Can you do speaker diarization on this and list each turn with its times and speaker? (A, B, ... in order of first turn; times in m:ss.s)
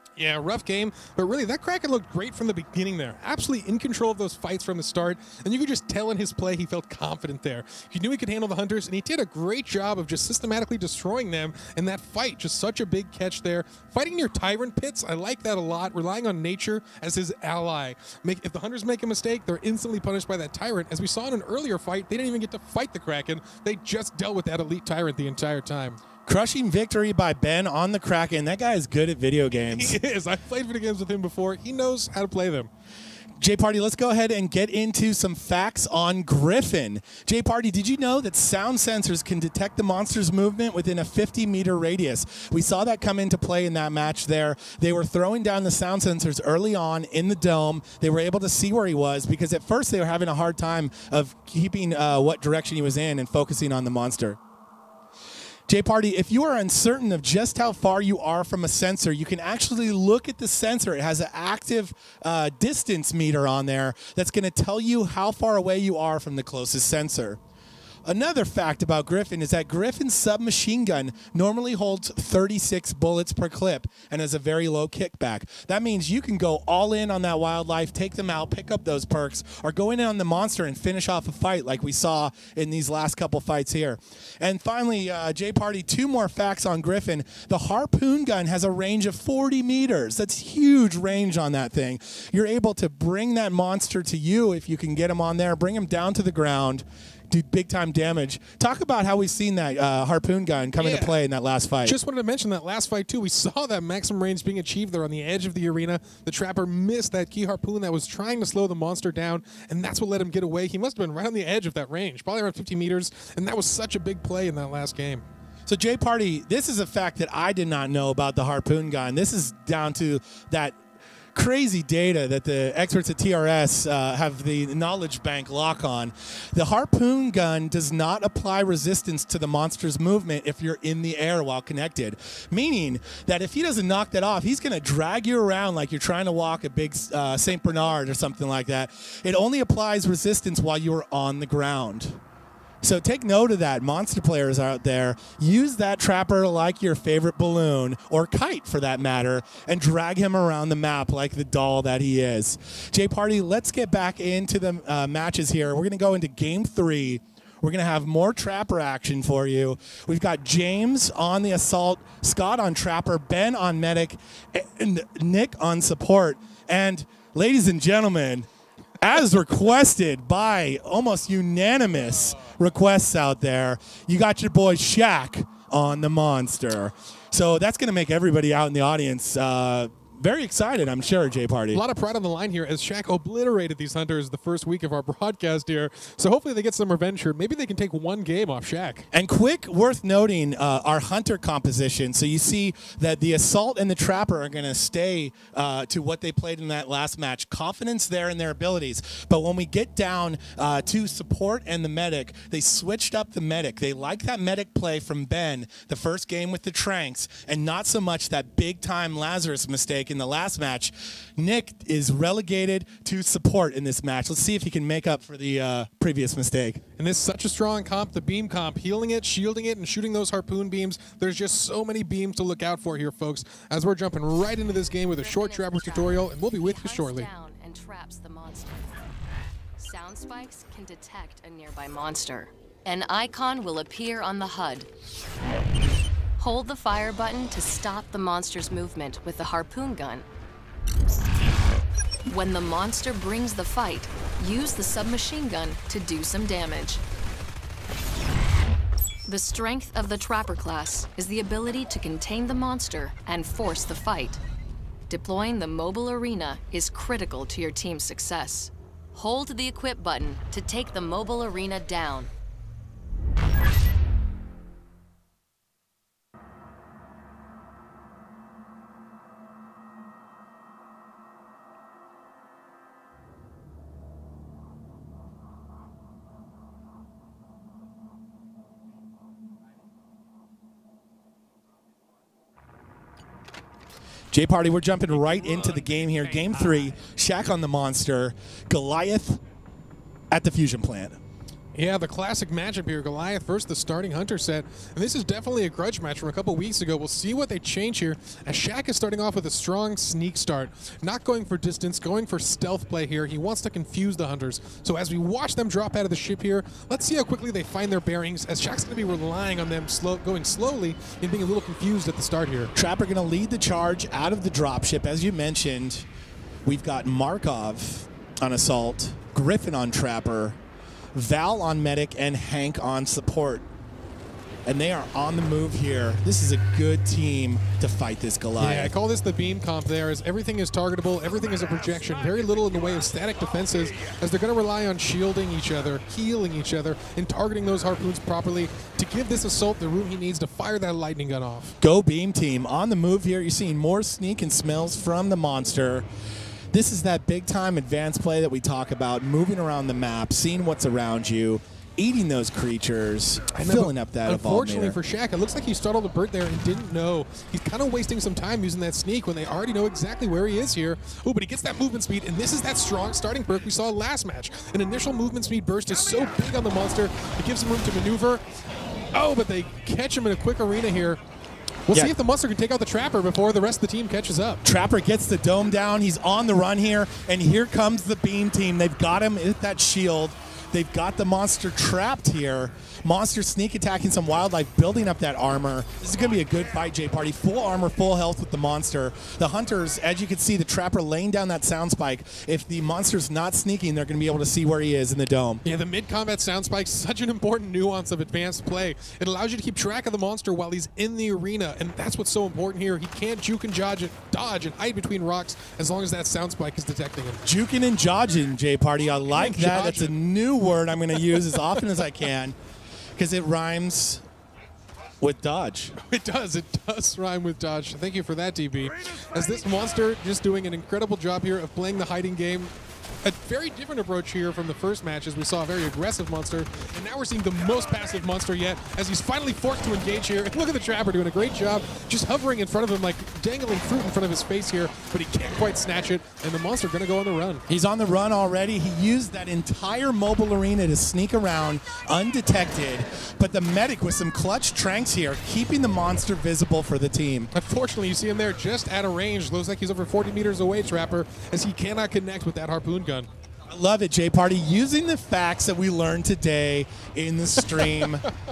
0:00.2-0:26.0 A
0:26.3-0:30.0 B
0:29.7-0:32.7 A
0:33.4-0:54.4 B
0:55.7-1:07.4 B
1:08.1-1:42.0 B
1:40.8-1:41.2 A
1:41.8-1:55.2 A
1:55.7-2:00.8 B
2:01.4-2:22.2 B
2:22.8-2:48.5 B
2:49.0-3:01.8 B
3:01.7-3:09.1 A
3:09.1-3:36.8 B
3:37.0-3:47.3 A
3:45.2-3:48.9 C
3:49.8-3:54.9 C
3:56.4-4:00.2 C
4:02.2-4:07.0 C
4:09.3-4:14.4 C
4:15.1-4:22.3 C
4:44.3-4:49.4 B
4:50.3-4:51.2 B
4:51.7-5:12.7 A
5:12.8-5:16.1 B
5:16.6-5:20.6 B
5:21.2-5:23.6 B
5:24.7-5:28.9 B
5:28.6-5:41.8 A
5:41.8-5:46.1 B
5:46.7-5:55.0 B
5:53.5-6:08.4 A
6:09.1-6:11.2 A
6:11.9-6:14.6 A
6:14.6-6:35.6 B
6:35.6-6:47.4 A
6:47.4-6:52.6 B
6:49.3-6:50.1 A
6:51.2-6:51.8 A
6:53.2-6:54.2 B
6:55.2-6:56.0 B
6:56.0-7:17.6 A
7:17.7-7:27.5 B
7:27.5-7:33.3 A
7:33.7-7:38.3 B
7:37.7-7:38.4 A